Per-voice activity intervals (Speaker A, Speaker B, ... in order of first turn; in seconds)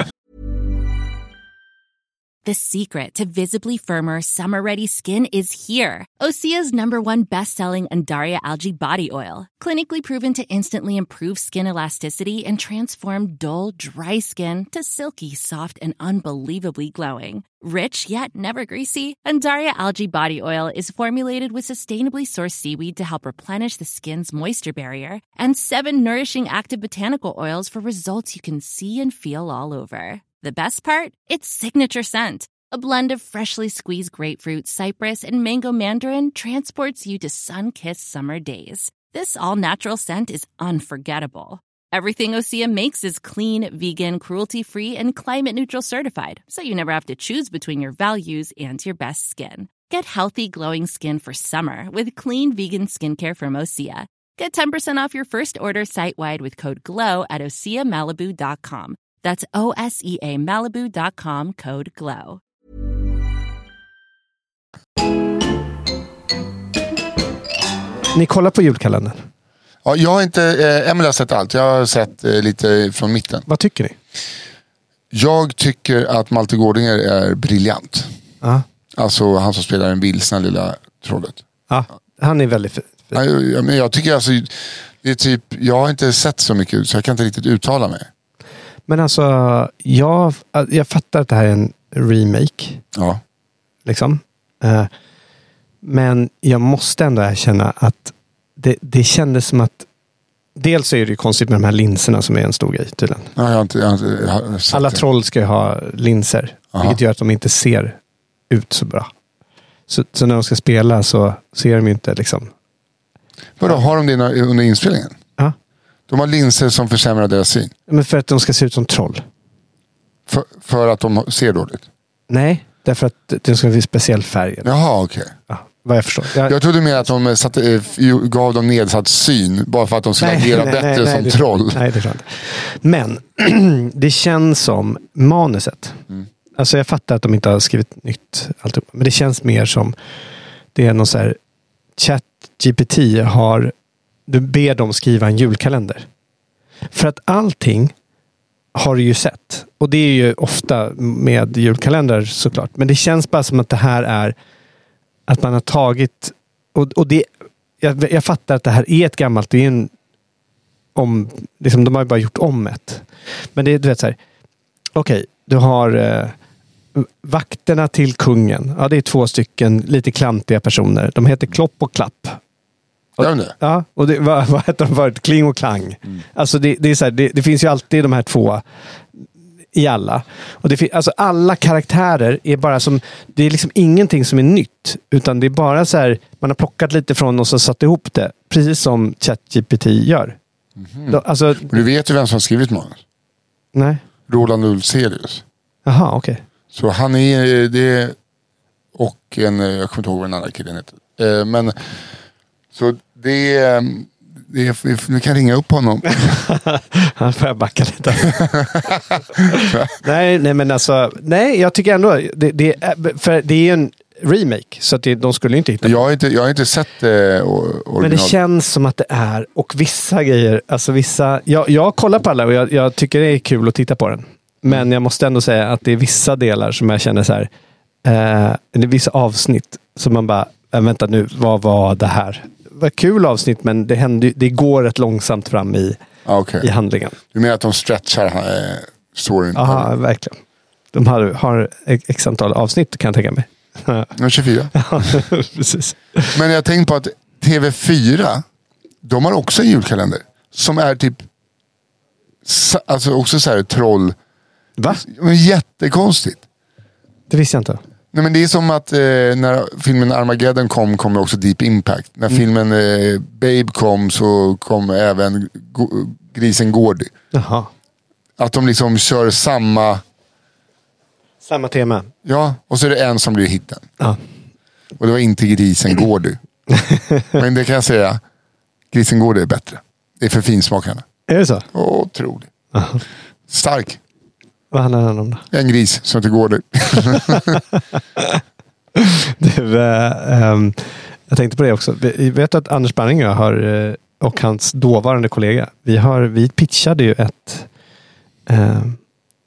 Speaker A: 2.5-62.4
Speaker B: 68.1-69.2, 73.5-74.0, 81.7-83.2, 88.9-92.8, 93.9-94.9, 95.8-99.9, 100.6-103.3, 104.7-108.0, 108.5-109.1, 109.9-112.5, 117.9-119.2, 122.3-124.7, 125.5-126.5, 130.2-136.0, 136.6-139.9, 140.8-141.4, 142.0-143.7, 144.3-146.1, 146.9-147.9, 148.8-154.3, 155.3-157.3, 157.8-159.9, 161.0-164.2, 164.9-166.3, 166.9-172.4, 173.2-178.6, 179.7-190.4, 191.1-191.7, 193.7-194.0, 195.9-196.4, 206.1-216.1, 218.0-227.5, 228.0-236.0, 236.6-237.2, 239.6-240.4, 240.9-244.1, 244.7-246.3, 254.8-255.0, 257.3-257.8, 267.3-267.7, 271.4-272.1, 276.7-277.4, 281.3-281.7, 282.7-283.0, 284.7-285.4, 289.0-297.7, 298.5-299.0
Speaker C: 69.8-73.5, 75.1-78.1, 79.0-81.4, 83.1-88.1, 93.0-93.2, 103.4-105.0, 113.6-115.2, 116.1-117.7, 120.3-121.8, 124.6-125.3, 126.4-131.8, 173.2-173.6, 190.8-193.0, 194.3-195.4, 196.7-198.2, 198.9-201.9, 202.7-206.4, 208.2-209.0, 209.5-209.9, 215.8-218.4, 236.2-236.7, 237.3-239.9, 244.2-244.7, 246.3-248.4, 249.0-251.3, 252.4-254.2, 254.9-256.4, 258.1-267.1, 268.4-270.0, 272.2-273.9, 275.0-276.4, 277.4-278.2, 278.9-281.1, 281.7-282.5, 283.5-284.0, 285.5-287.6